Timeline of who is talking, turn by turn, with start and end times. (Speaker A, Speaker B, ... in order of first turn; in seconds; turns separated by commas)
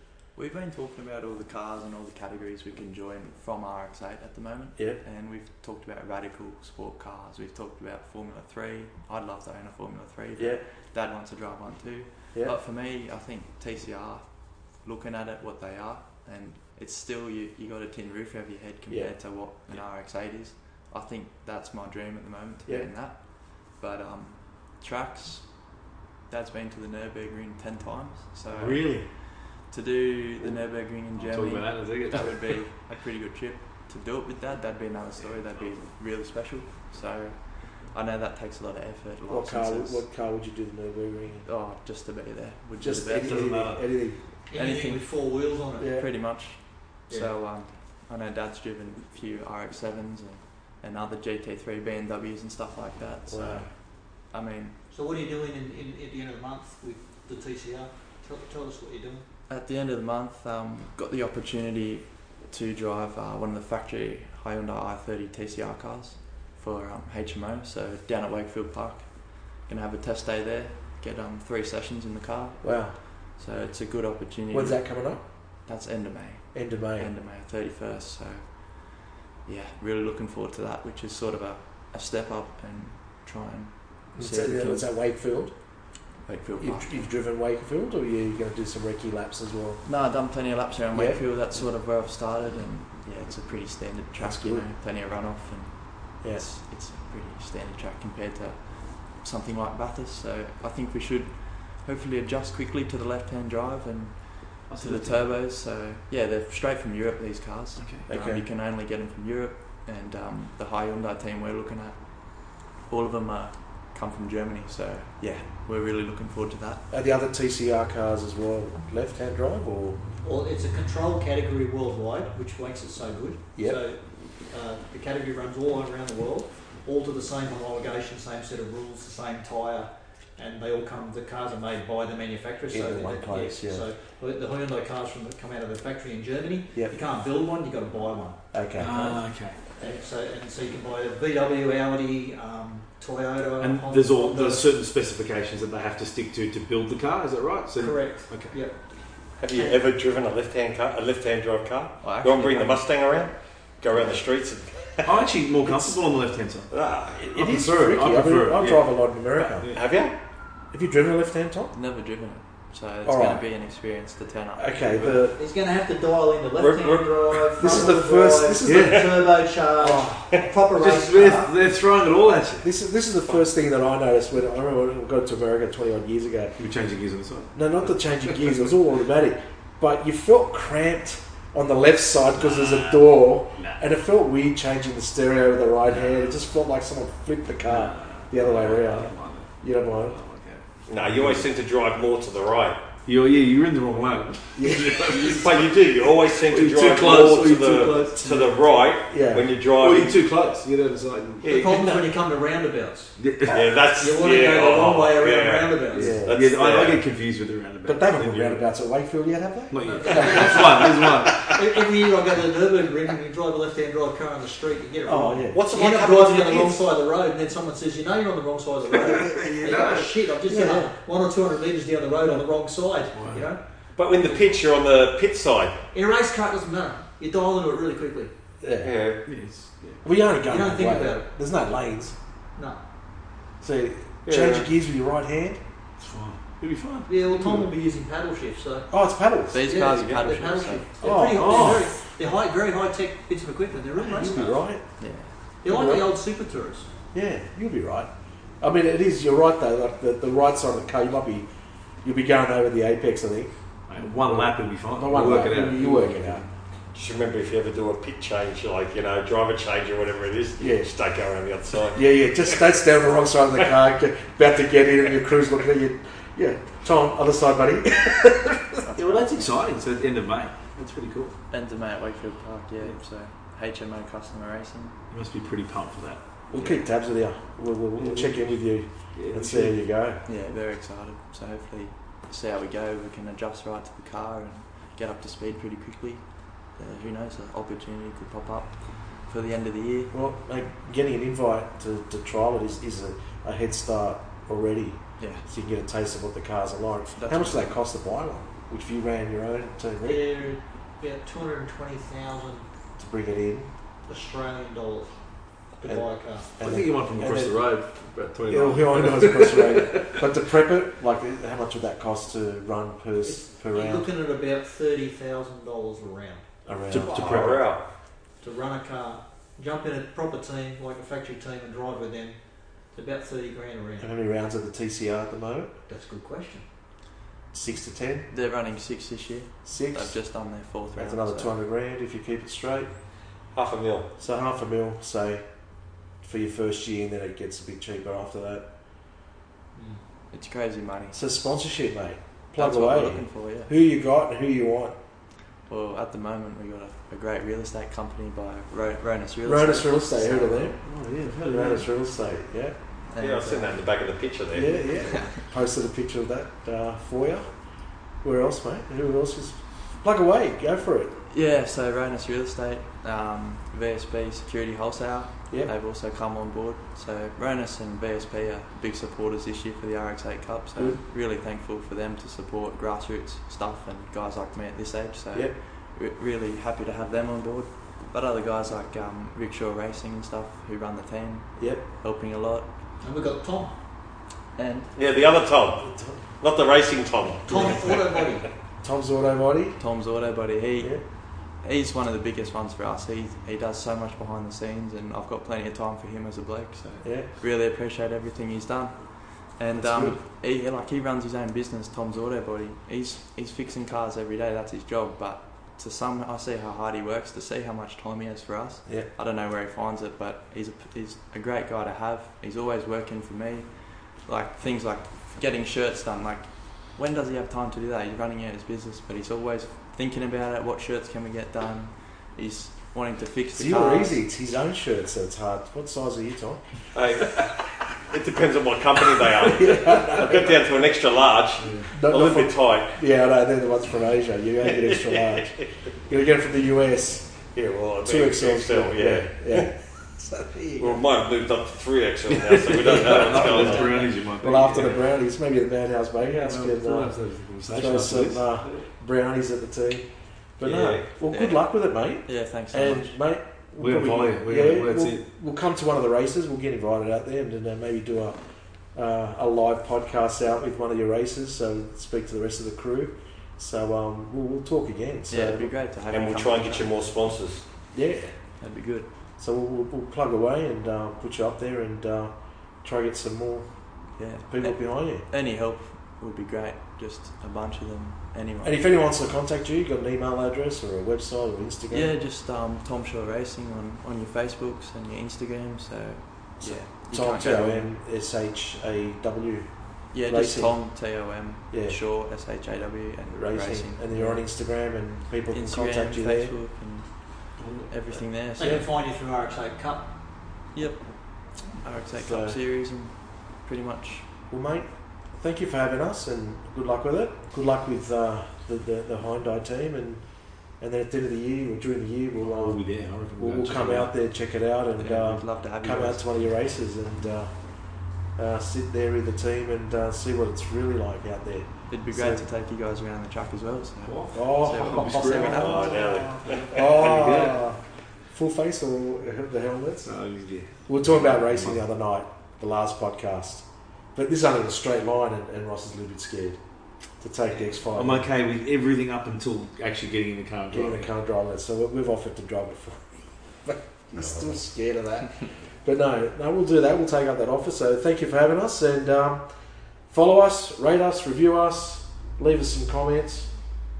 Speaker A: 0.3-40.0, Speaker B: 18.9-19.1, Speaker C: 28.5-29.1, Speaker C: 31.1-32.6, Speaker B: 39.3-41.5, Speaker A: 41.4-43.7, Speaker B: 42.8-44.2, Speaker C: 43.2-43.8, Speaker D: 44.5-45.9, Speaker A: 44.5-54.8, Speaker B: 45.8-46.1, Speaker B: 53.3-53.7, Speaker D: 54.9-59.2, Speaker A: 59.5-84.9, Speaker B: 72.6-73.0, Speaker B: 74.5-75.2, Speaker B: 76.5-77.1, Speaker B: 84.1-85.5, Speaker A: 86.2-87.0, Speaker B: 86.6-89.8, Speaker A: 89.8-116.8, Speaker B: 90.9-91.2, Speaker B: 94.2-94.6, Speaker C: 104.7-105.3, Speaker C: 107.8-108.0, Speaker B: 108.1-108.4, Speaker B: 116.9-120.0, Speaker D: 120.2-144.7, Speaker B: 132.7-133.8, Speaker B: 138.5-139.1, Speaker C: 138.8-139.6, Speaker C: 143.6-148.6, Speaker D: 147.7-148.8, Speaker E: 149.4-155.2, Speaker D: 149.5-149.8, Speaker A: 152.0-152.9, Speaker C: 155.0-156.7, Speaker B: 155.7-156.0, Speaker E: 156.7-157.2, Speaker B: 157.2-159.7, Speaker C: 157.3-159.9, Speaker E: 159.7-160.1, Speaker B: 160.7-161.7, Speaker A: 161.7-164.7, Speaker B: 163.0-163.4, Speaker B: 164.6-165.3, Speaker D: 165.3-171.5, Speaker E: 166.6-167.5, Speaker B: 167.6-169.1, Speaker C: 168.6-169.0, Speaker B: 169.8-170.4, Speaker C: 170.7-172.7, Speaker B: 172.6-176.6, Speaker C: 176.6-177.7, Speaker B: 177.5-190.1, Speaker C: 182.3-183.8, Speaker C: 185.8-186.4, Speaker C: 187.7-191.5, Speaker E: 190.9-192.8, Speaker C: 193.0-195.7, Speaker B: 194.6-195.1, Speaker E: 195.1-200.2, Speaker C: 196.4-198.2, Speaker B: 198.1-199.5, Speaker C: 199.7-201.7, Speaker D: 201.4-203.1, Speaker E: 201.4-202.1, Speaker C: 203.2-203.8, Speaker E: 203.5-207.0, Speaker D: 204.0-206.2, Speaker B: 205.9-206.4, Speaker C: 205.9-208.6, Speaker B: 207.8-211.4, Speaker C: 209.7-211.5, Speaker D: 209.8-223.6, Speaker B: 215.1-215.7, Speaker E: 215.5-216.8, Speaker C: 219.3-220.2, Speaker B: 220.4-220.9, Speaker C: 223.1-223.5, Speaker E: 223.9-225.8, Speaker D: 225.9-228.3, Speaker B: 228.6-228.9, Speaker E: 228.8-229.2, Speaker C: 229.2-230.0, Speaker B: 230.0-232.2, Speaker D: 230.4-231.2, Speaker D: 232.6-232.8, Speaker B: 233.6-235.6, Speaker E: 234.2-234.7, Speaker C: 236.0-237.7, Speaker D: 237.1-238.9, Speaker B: 238.9-239.7, Speaker A: 239.5-240.8, Speaker D: 239.6-244.6, Speaker B: 241.0-241.9, Speaker C: 241.3-241.9, Speaker B: 244.0-246.1, Speaker A: 245.0-245.4, Speaker D: 245.6-246.9, Speaker B: 247.1-251.5, Speaker B: 252.0-256.4, Speaker C: 253.9-256.5, Speaker E: 256.9-262.6, Speaker B: 260.6-260.9, Speaker B: 261.9-268.8, Speaker A: 268.8-269.6, Speaker C: 268.9-271.4, Speaker A: 271.5-275.0, Speaker C: 275.1-276.2, Speaker B: 276.5-280.2, Speaker A: 276.5-276.9, Speaker C: 278.0-278.6, Speaker C: 279.1-279.8, Speaker A: 280.2-290.1, Speaker B: 290.1-300.2, Speaker A: 295.2-295.4, Speaker A: 297.1-297.7, Speaker D: 300.0-302.7, Speaker B: 303.0-303.7, Speaker D: 304.1-305.1, Speaker D: 305.7-306.5, Speaker B: 306.6-307.6, Speaker C: 306.6-310.2, Speaker B: 308.5-314.1, Speaker D: 313.2-317.5, Speaker B: 316.6-317.4, Speaker C: 316.9-317.7, Speaker E: 317.1-317.8, Speaker D: 318.4-324.1, Speaker B: 324.0-325.7, Speaker D: 325.9-326.6, Speaker B: 327.5-328.3, Speaker A: 328.3-331.5, Speaker B: 329.6-330.3, Speaker B: 330.9-332.9, Speaker E: 333.5-334.1, Speaker B: 334.2-335.4, Speaker B: 336.2-338.7, Speaker D: 339.7-340.0, Speaker A: 340.3-341.2, Speaker B: 341.1-344.9, Speaker A: 342.5-343.7, Speaker A: 345.7-350.8, Speaker B: 349.4-350.8, Speaker C: 350.8-351.9, Speaker B: 351.4-352.7, Speaker A: 353.1-353.8, Speaker E: 353.2-354.9, Speaker B: 354.5-357.5, Speaker A: 355.1-355.4, Speaker B: 358.2-361.2, Speaker A: 361.3-382.7, Speaker B: 381.6-381.8, Speaker D: 383.0-383.7, Speaker A: 384.6-384.9, Speaker E: 384.9-388.2, Speaker B: 385.8-386.2, Speaker D: 387.5-388.5, Speaker B: 387.5-387.9, Speaker B: 388.8-389.8, Speaker A: 389.8-424.2, Speaker B: 397.0-397.3, Speaker B: 399.7-400.2, Speaker B: 423.6-426.6, Speaker E: 426.9-433.0, Speaker B: 429.5-430.6, Speaker C: 431.6-431.9, Speaker B: 431.9-437.5, Speaker E: 434.7-435.4, Speaker E: 437.5-439.7, Speaker B: 438.0-441.0, Speaker E: 440.8-444.1, Speaker C: 442.5-445.0, Speaker B: 442.8-447.2, Speaker C: 446.3-448.9, Speaker B: 447.7-458.4, Speaker E: 450.6-451.0, Speaker A: 451.3-453.2, Speaker C: 453.8-455.2, Speaker B: 458.9-465.7, Speaker A: 465.3-467.1, Speaker E: 466.1-467.6, Speaker B: 467.9-468.4, Speaker A: 468.6-469.1, Speaker B: 469.4-473.7, Speaker A: 474.2-478.8, Speaker B: 474.5-475.3, Speaker B: 478.6-482.1, Speaker A: 481.9-487.9, Speaker B: 486.6-490.8, Speaker A: 490.1-494.2, Speaker B: 491.7-492.0, Speaker B: 493.3-496.5, Speaker C: 494.1-494.4, Speaker A: 495.5-498.9, Speaker C: 497.6-498.2, Speaker D: 498.6-500.1, Speaker B: 498.6-498.9, Speaker A: 500.7-504.3, Speaker B: 502.1-502.6, Speaker B: 504.5-510.2, Speaker B: 510.8-517.7, Speaker C: 512.4-514.1, Speaker A: 515.0-516.4, Speaker B: 518.4-522.4, Speaker A: 521.9-526.0, Speaker C: 524.0-525.9, Speaker B: 524.3-530.1, Speaker E: 525.5-526.9, Speaker C: 526.8-527.6, Speaker C: 530.0-531.8, Speaker B: 530.9-536.6, Speaker B: 537.1-538.3, Speaker C: 537.9-541.1, Speaker B: 540.7-549.5, Speaker B: 550.1-553.5